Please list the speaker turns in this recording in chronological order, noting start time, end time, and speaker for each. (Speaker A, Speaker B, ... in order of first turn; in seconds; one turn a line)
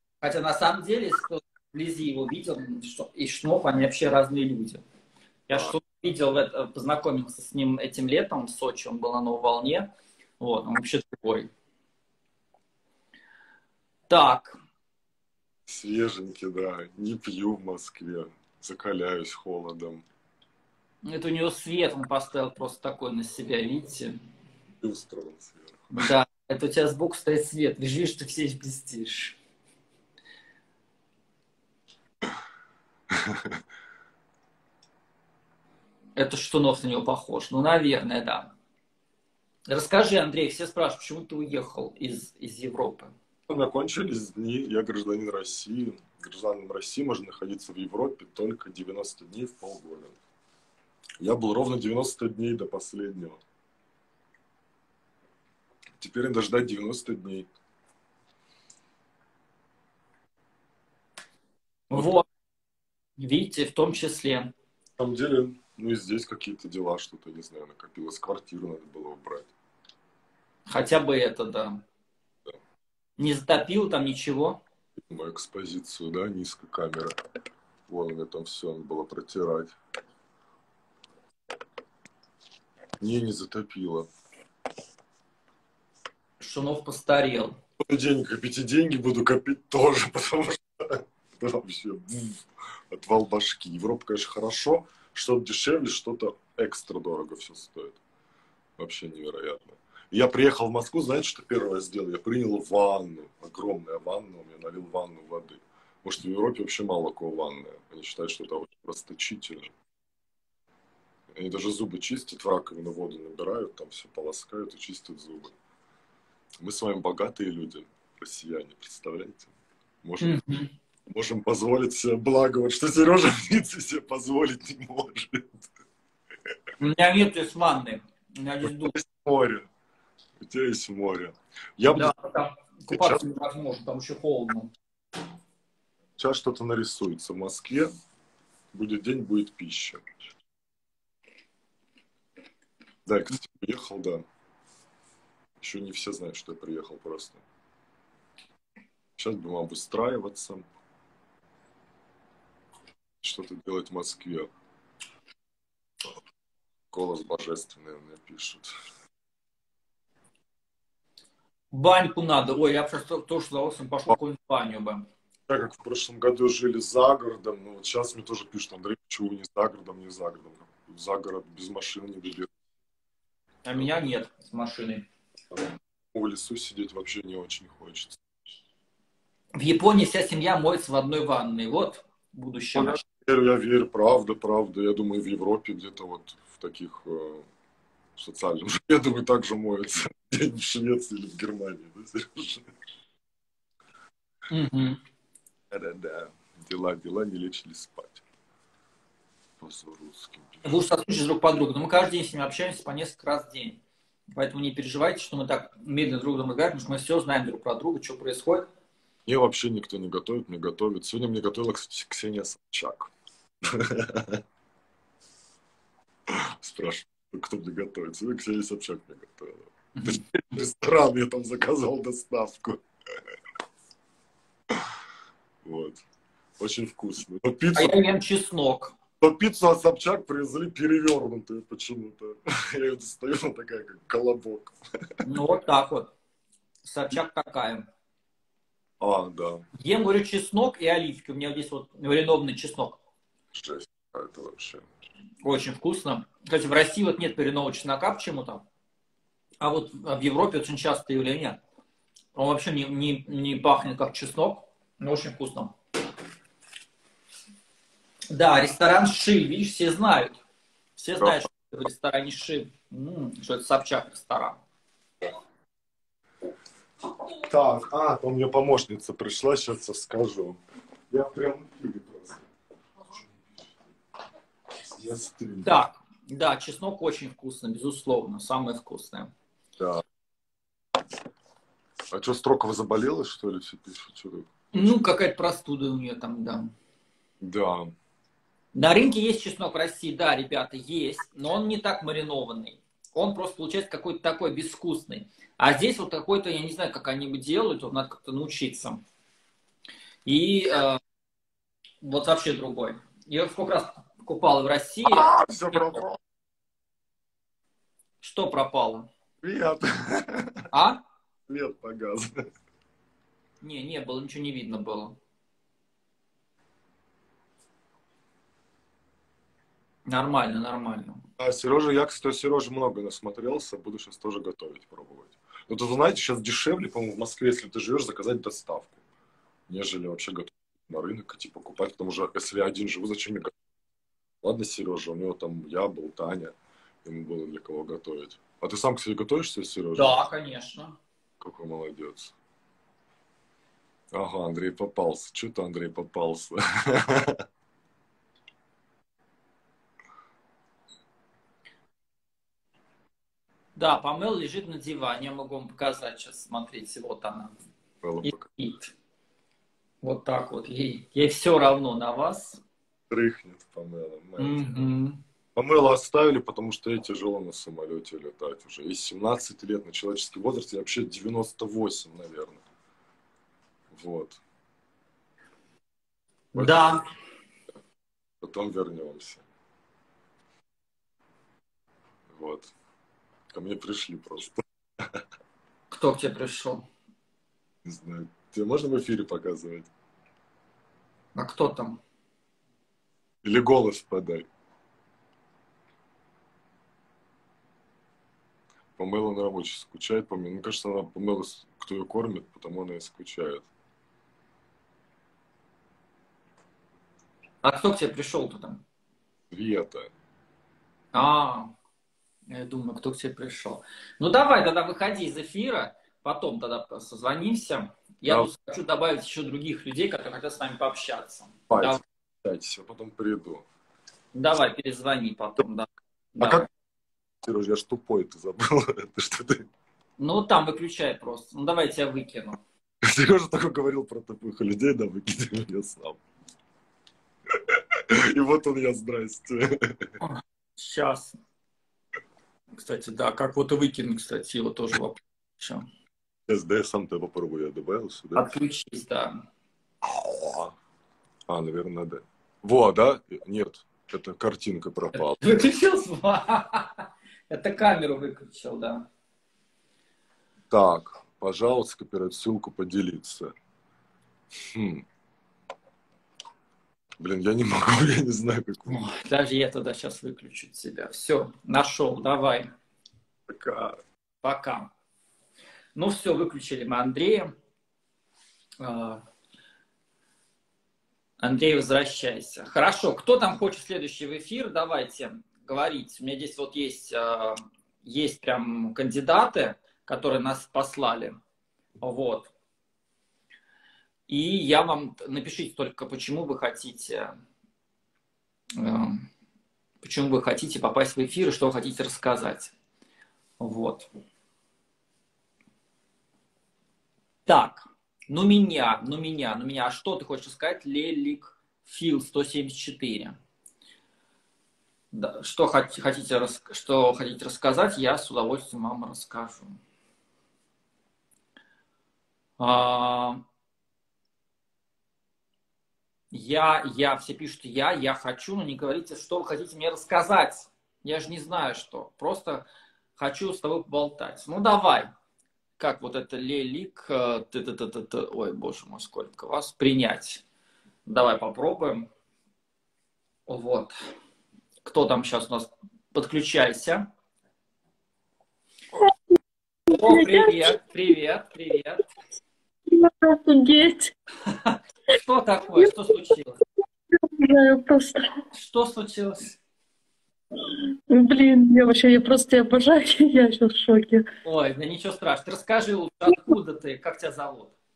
Speaker A: 0.2-4.8
Speaker A: 5.5-11.5
Speaker A: 14.1-14.6
Speaker B: 15.7-20.0
Speaker A: 21.0-24.2
Speaker B: 24.8-26.0
Speaker A: 25.9-29.4
Speaker B: 33.1-33.6
Speaker A: 36.1-38.5
Speaker A: 39.7-43.1
Speaker B: 43.5-50.1
Speaker B: 51.2-53.4
Speaker B: 56.0-57.5
Speaker A: 61.9-62.2
Speaker A: 63.2-64.5
Speaker B: 65.0-69.5
Speaker A: 70.7-71.8
Speaker A: 73.2-74.6
Speaker B: 75.0-77.2
Speaker B: 77.9-79.7
Speaker B: 83.0-84.1
Speaker A: 86.4-87.5
Speaker B: 87.8-98.0
Speaker B: 98.8-109.7
Speaker B: 111.3-115.5
Speaker B: 116.6-119.5
Speaker B: 120.0-120.4
Speaker A: 120.2-120.7
Speaker B: 121.1-125.6
Speaker A: 126.8-128.9
Speaker B: 128.6-129.7
Speaker B: 130.4-132.1
Speaker A: 131.9-134.7
Speaker B: 132.9-133.2
Speaker B: 136.2-137.9
Speaker B: 138.7-140.0
Speaker B: 143.1-144.2
Speaker B: 145.6-147.4
Speaker B: 149.2-150.7
Speaker B: 153.2-154.5
Speaker B: 156.9-158.7
Speaker A: 161.7-165.0
Speaker B: 165.5-172.5
Speaker A: 173.6-175.1
Speaker B: 176.1-178.2
Speaker A: 179.6-183.0
Speaker B: 182.7-187.5
Speaker B: 188.2-192.7
Speaker A: 194.5-195.0
Speaker B: 195.7-198.2
Speaker B: 199.6-200.8
Speaker A: 200.6-203.8
Speaker A: 204.3-208.7
Speaker B: 209.2-213.1
Speaker B: 213.6-214.4
Speaker B: 216.3-222.8
Speaker A: 219.9-220.3
Speaker B: 225.6-226.0
Speaker B: 226.6-227.9
Speaker A: 227.7-228.9
Speaker B: 229.2-235.2
Speaker A: 235.2-236.1
Speaker A: 236.8-237.9
Speaker B: 239.0-239.6
Speaker A: 239.8-243.0
Speaker B: 243.5-244.8
Speaker A: 245.4-248.6
Speaker A: 249.6-251.6
Speaker A: 252.3-255.7
Speaker A: 258.3-260.4
Speaker A: 261.0-264.6
Speaker B: 267.4-270.6
Speaker B: 271.1-272.4
Speaker B: 274.8-275.7
Speaker A: 275.6-279.3
Speaker B: 279.8-280.0
Speaker B: 282.1-284.9
Speaker A: 284.7-286.7
Speaker B: 287.4-287.9
Speaker A: 288.7-299.0
Speaker A: 300.2-301.0
Speaker A: 302.0-305.8
Speaker B: 305.1-306.2
Speaker A: 308.2-309.1
Speaker B: 309.4-310.6
Speaker A: 310.7-311.0
Speaker B: 311.5-312.4
Speaker A: 313.6-315.2
Speaker A: 320.1-321.2
Speaker B: 321.4-329.0
Speaker B: 329.7-333.5
Speaker B: 334.4-340.2
Speaker A: 339.9-340.9
Speaker B: 341.4-342.3
Speaker B: 344.1-347.4
Speaker A: 353.8-357.5
Speaker B: 358.0-358.4
Speaker A: 358.2-358.9
Speaker A: 360.0-362.6
Speaker B: 363.1-364.9
Speaker A: 364.4-365.2
Speaker B: 365.6-372.6
Speaker B: 373.9-374.4
Speaker A: 376.5-377.0
Speaker B: 376.5-376.9
Speaker B: 378.4-379.4
Speaker B: 382.3-382.7
Speaker B: 383.5-385.2
Speaker A: 385.9-386.9
Speaker B: 387.8-389.9
Speaker A: 391.3-392.0
Speaker B: 393.4-394.5
Speaker B: 399.0-403.6
Speaker A: 407.6-408.8
Speaker B: 409.5-410.1
Speaker A: 411.1-411.7
Speaker A: 412.5-422.0
Speaker B: 421.7-423.6
Speaker A: 424.3-426.7
Speaker B: 426.4-426.7
Speaker B: 427.4-429.7
Speaker A: 430.2-432.6
Speaker B: 433.0-436.2
Speaker B: 437.5-440.1
Speaker A: 440.2-441.4
Speaker A: 442.7-445.9
Speaker B: 446.5-448.5
Speaker A: 448.3-449.4
Speaker B: 450.0-450.7
Speaker B: 451.5-455.4
Speaker A: 455.1-459.1
Speaker B: 460.7-463.5
Speaker B: 464.6-465.0
Speaker B: 467.2-469.1
Speaker A: 468.9-472.7
Speaker B: 473.5-474.0
Speaker A: 474.4-474.9
Speaker A: 475.9-477.5
Speaker A: 478.8-479.2
Speaker A: 481.4-491.4
Speaker A: 492.0-492.5
Speaker A: 494.3-497.3
Speaker A: 498.8-499.2
Speaker A: 500.0-502.7
Speaker A: 503.6-504.1
Speaker A: 507.4-513.4
Speaker A: 515.1-519.8
Speaker A: 522.6-523.4
Speaker A: 526.3-532.6
Speaker A: 533.2-535.1
Speaker A: 535.8-540.4
Speaker A: 541.0-542.1
Speaker A: 543.5-543.9
Speaker A: 544.8-547.1
Speaker A: 549.9-552.0
Speaker C: 549.9-550.7
Speaker C: 552.9-554.1
Speaker A: 554.5-556.6
Speaker C: 557.1-558.3
Speaker A: 558.5-559.6
Speaker C: 561.1-564.3
Speaker A: 564.4-567.8